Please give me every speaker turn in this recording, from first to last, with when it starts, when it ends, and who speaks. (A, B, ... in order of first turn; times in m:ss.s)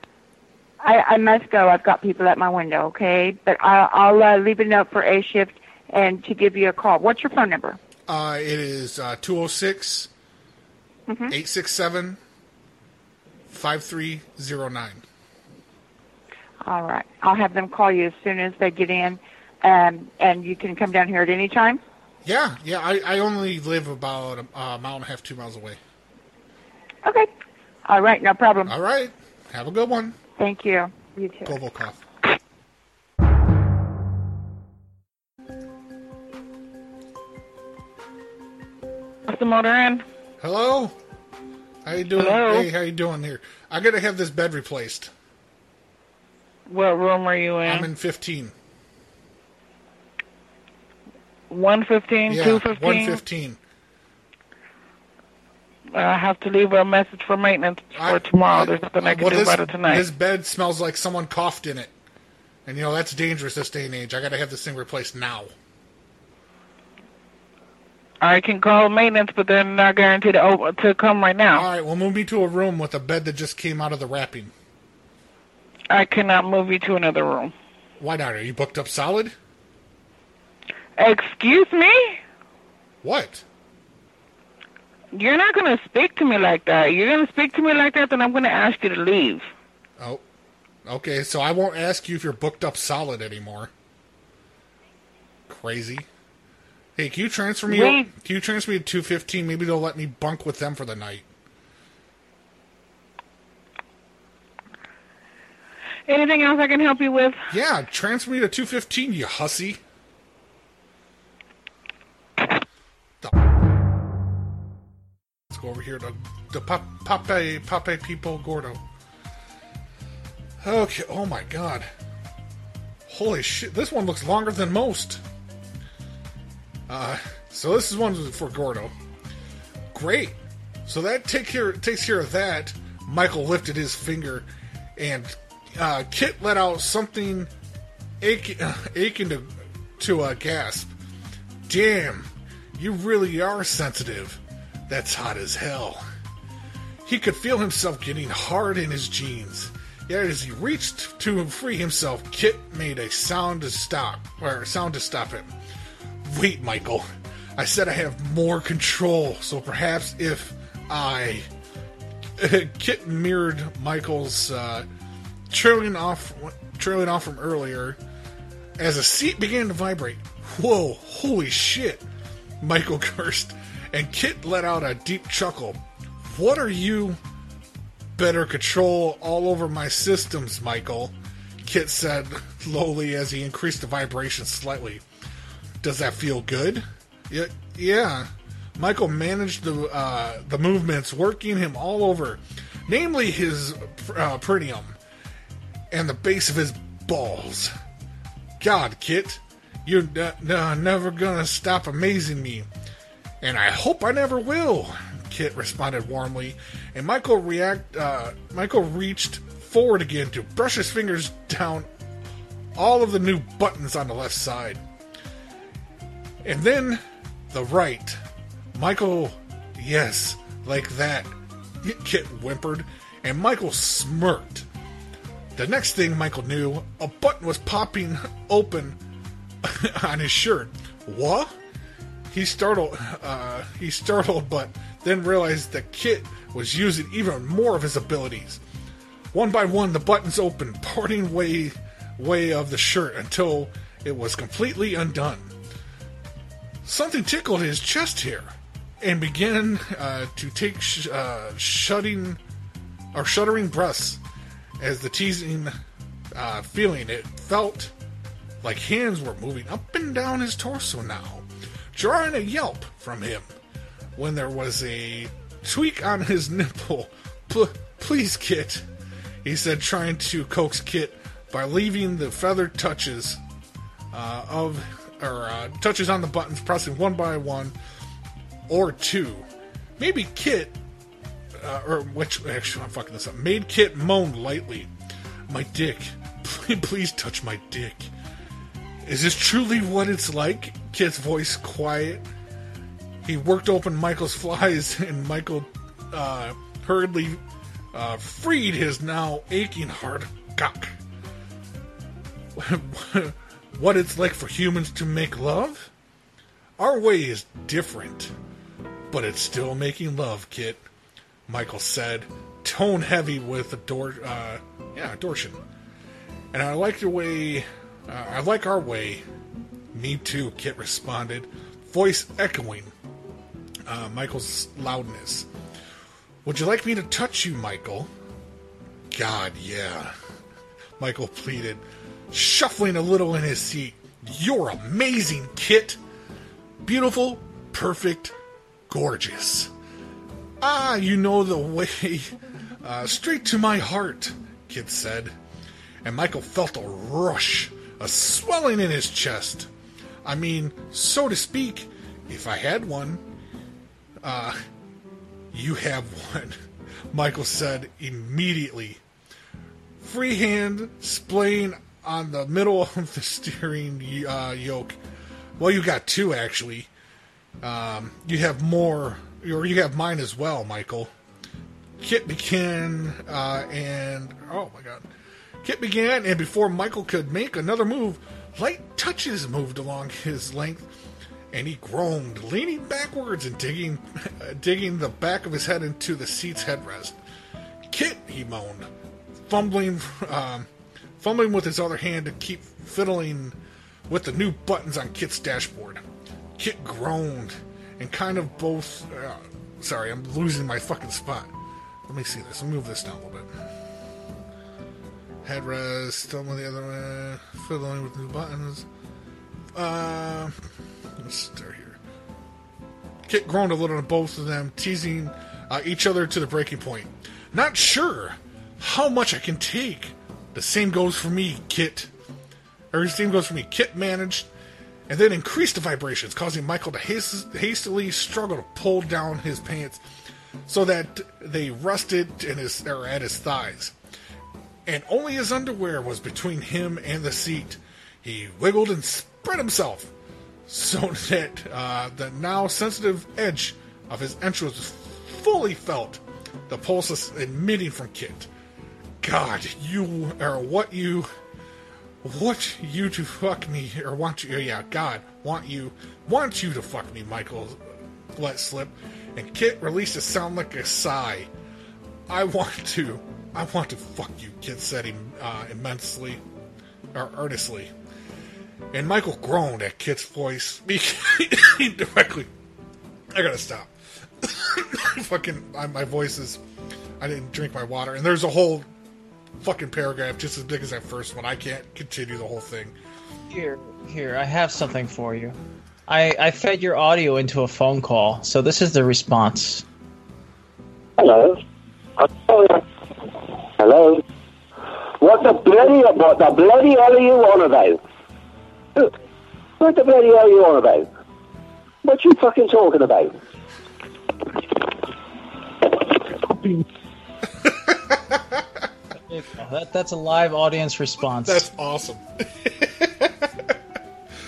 0:00.8-0:07.8 A
0:08.1-0:10.1 B
0:11.1-0:11.3 A
0:11.3-0:12.2 B
0:13.5-0:15.0 B
0:16.6-0:21.8 A
0:22.2-0:25.8 B
0:27.9-0:28.7 A
0:28.7-0:30.2 B
0:30.4-0:31.5 A
0:31.5-0:32.0 B
0:39.3-0:40.0 C
0:40.4-0:41.0 B
0:41.8-0:45.1 B
0:42.2-0:42.7 C
0:46.7-0:47.9 C
0:47.6-0:48.5 B
0:51.5-0:53.2 C
0:52.3-0:53.6 B
0:55.9-1:00.1 C
0:57.9-1:01.9 B
1:02.7-1:05.5 B
1:08.2-1:11.7 C
1:11.5-1:14.5 B
1:15.9-1:17.5 C
1:18.0-1:19.4 B
1:21.0-1:22.2 C
1:23.0-1:23.4 B
1:25.1-1:29.5 C
1:30.9-1:33.7 B
1:35.5-1:36.1 B
1:37.0-1:41.3 B
1:37.7-1:38.1 C
1:46.1-1:47.4 C
1:47.5-1:49.8 B
1:55.5-1:58.8 B
2:00.6-2:01.9 B
2:03.1-2:05.2 B
2:06.9-2:08.9 B
2:09.9-2:17.5 B
2:18.2-2:20.9 B
2:21.7-2:26.0 B
2:27.0-2:35.5 B
2:36.2-2:37.1 B
2:37.6-2:41.5 B
2:42.4-2:44.9 B
2:45.5-2:48.0 B
2:48.8-2:52.0 B
2:52.6-2:57.2 B
2:58.2-3:05.0 B
3:05.8-3:15.0 B
3:15.9-3:17.7 B
3:18.6-3:22.7 B
3:23.4-3:31.9 B
3:32.8-3:34.8 B
3:36.4-3:38.2 B
3:38.8-3:44.7 B
3:45.6-3:49.0 B
3:49.6-3:51.5 B
3:52.3-3:58.6 B
3:59.3-4:05.5 B
4:06.8-4:12.4 B
4:13.1-4:14.2 B
4:14.8-4:15.7 B
4:16.3-4:17.9 B
4:18.6-4:23.5 B
4:24.2-4:28.8 B
4:29.4-4:33.4 B
4:34.1-4:37.7 B
4:38.7-4:39.5 B
4:40.0-4:40.8 B
4:41.6-4:44.9 B
4:45.5-4:48.1 B
4:49.0-4:52.2 B
4:53.2-4:57.4 B
4:57.9-5:00.9 B
5:02.6-5:05.9 B
5:06.8-5:08.3 B
5:09.1-5:10.8 B
5:11.5-5:15.6 B
5:16.5-5:19.2 B
5:19.9-5:22.9 B
5:23.8-5:25.5 B
5:26.4-5:28.1 B
5:29.1-5:30.1 B
5:31.0-5:36.0 B
5:36.8-5:38.4 B
5:38.9-5:39.7 B
5:40.6-5:45.3 B
5:46.0-5:49.7 B
5:50.2-5:53.2 B
5:54.2-5:54.6 B
5:55.5-5:56.6 B
5:57.1-5:59.0 B
6:00.0-6:05.0 B
6:05.6-6:06.9 B
6:07.6-6:11.1 B
6:12.0-6:15.1 B
6:15.6-6:20.9 B
6:21.5-6:27.2 B
6:27.9-6:28.9 B
6:29.5-6:33.6 B
6:34.1-6:36.0 B
6:36.6-6:41.5 B
6:42.1-6:43.5 B
6:45.4-6:48.9 B
6:49.7-6:50.6 B
6:51.2-6:52.0 B
6:53.2-7:02.1 B
7:02.9-7:04.5 B
7:05.1-7:10.0 B
7:10.7-7:13.9 B
7:14.9-7:20.1 B
7:20.7-7:28.5 B
7:29.2-7:31.3 B
7:32.2-7:37.8 B
7:38.4-7:41.5 B
7:42.3-7:46.4 B
7:47.1-7:47.9 B
7:48.9-7:52.5 B
7:53.3-7:56.6 B
7:57.2-7:58.9 B
7:59.6-8:03.0 B
8:03.5-8:09.8 D
8:11.2-8:11.6 E
8:12.2-8:12.8 E
8:13.8-8:14.2 E
8:15.2-8:18.0 E
8:19.8-8:21.1 E
8:22.0-8:23.3 E
8:27.6-8:28.6 B
8:29.3-8:31.7 D
8:31.4-8:33.8 B